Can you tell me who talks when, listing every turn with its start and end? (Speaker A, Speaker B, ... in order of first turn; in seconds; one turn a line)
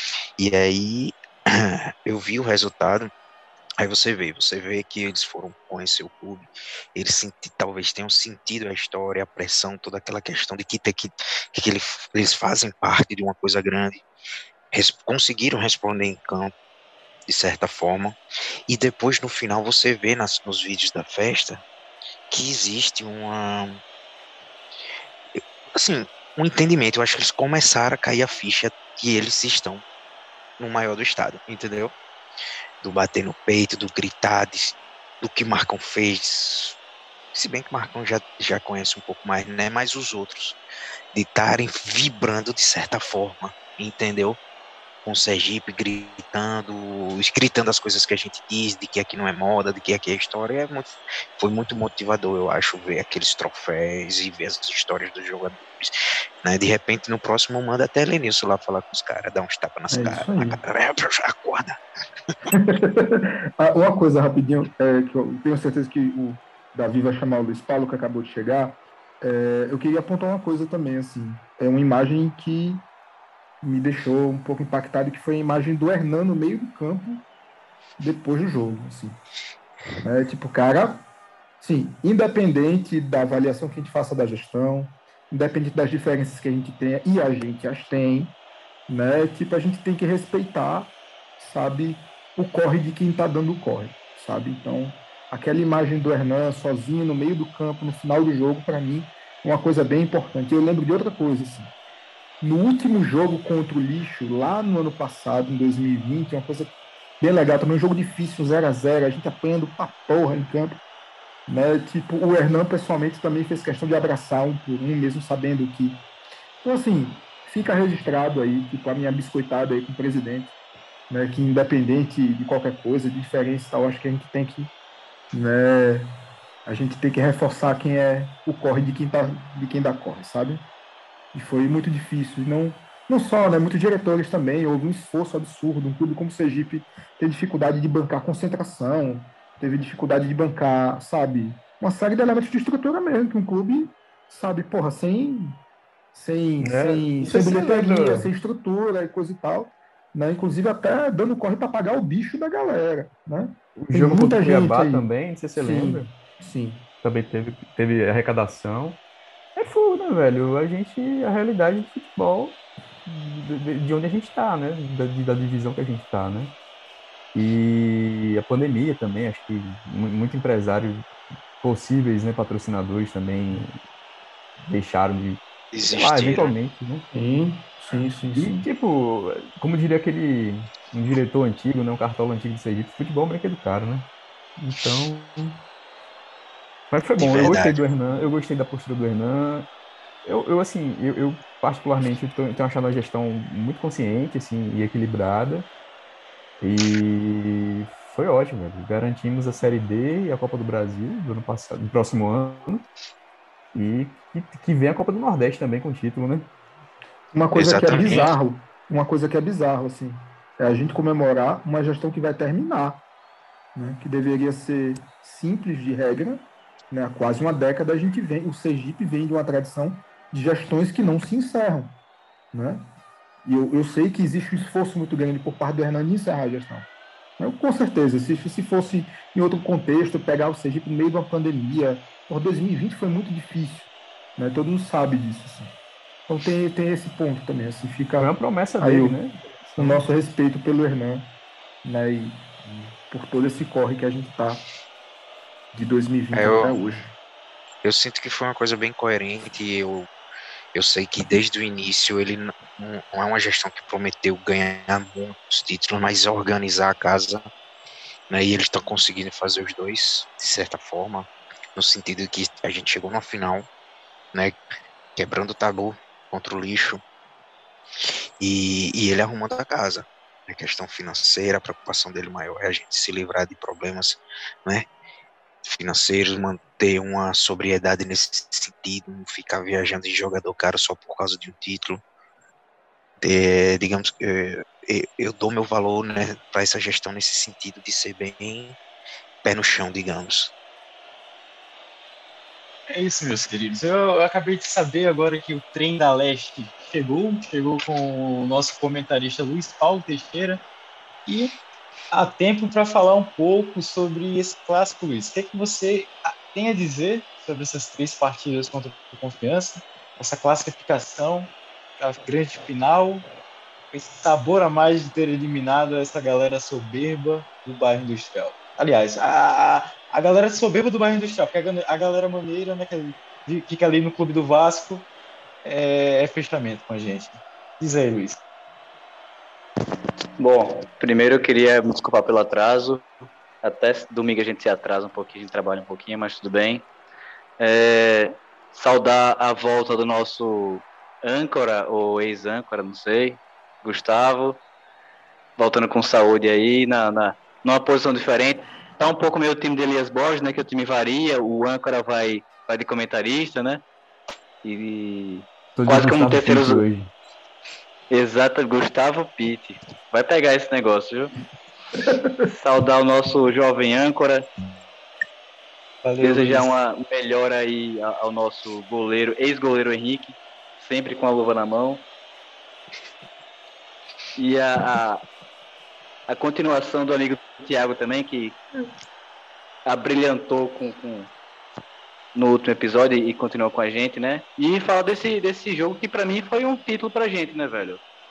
Speaker A: 0.4-3.1
Speaker A: 3.8-14.0
Speaker A: 14.7-16.5
Speaker A: 17.3-21.6
Speaker A: 22.3-23.8
Speaker A: 25.7-29.8
Speaker A: 30.6-31.9
Speaker A: 32.8-36.8
Speaker A: 37.3-40.6
Speaker A: 41.1-44.4
Speaker A: 45.0-55.9
Speaker A: 56.4-61.8
Speaker B: 59.9-60.6
Speaker B: 62.5-72.8
Speaker B: 73.6-77.2
Speaker B: 78.0-79.2
Speaker B: 80.0-81.0
Speaker B: 81.6-88.3
Speaker B: 88.9-101.7
Speaker B: 102.4-110.8
Speaker B: 111.5-116.0
Speaker B: 116.6-120.5
Speaker B: 121.1-124.7
Speaker B: 125.3-126.1
Speaker B: 126.7-130.6
Speaker B: 131.3-145.6
Speaker B: 146.1-156.9
Speaker C: 146.6-148.3
Speaker C: 153.8-156.1
Speaker C: 157.0-159.0
Speaker C: 159.6-166.5
Speaker C: 167.3-171.1
Speaker C: 171.6-173.8
Speaker C: 174.6-175.4
Speaker A: 175.7-176.5
Speaker C: 176.0-177.1
Speaker B: 177.1-178.6
Speaker C: 178.3-184.1
Speaker C: 184.6-185.6
Speaker C: 186.9-189.7
Speaker A: 187.2-187.8
Speaker C: 190.2-195.7
Speaker C: 196.6-202.8
Speaker C: 203.7-206.5
Speaker B: 207.3-213.0
Speaker A: 207.6-208.3
Speaker B: 213.8-221.9
Speaker B: 222.5-222.9
Speaker B: 223.4-226.9
Speaker B: 227.4-235.7
Speaker B: 236.3-239.2
Speaker C: 238.2-240.0
Speaker B: 239.8-241.3
Speaker B: 241.8-244.6
Speaker B: 245.7-247.1
Speaker A: 246.3-247.0
Speaker A: 247.8-250.1
Speaker A: 250.8-257.4
Speaker A: 258.3-263.7
Speaker A: 265.2-267.0
Speaker A: 268.4-274.9
Speaker A: 275.6-282.0
Speaker A: 283.2-288.8
Speaker A: 289.4-290.5
Speaker D: 292.9-300.6
Speaker D: 301.3-301.5
Speaker D: 302.1-313.3
Speaker D: 313.9-325.1
Speaker D: 325.6-328.4
Speaker E: 330.4-333.1
Speaker E: 333.6-336.9
Speaker E: 337.6-344.6
Speaker E: 345.6-353.8
Speaker E: 354.6-356.8
Speaker C: 355.8-357.1
Speaker E: 358.1-361.3
Speaker E: 362.4-364.5
Speaker D: 366.0-366.7
Speaker E: 366.2-372.1
Speaker E: 374.4-375.2
Speaker E: 376.3-378.6
Speaker E: 379.9-381.3
Speaker E: 382.4-388.0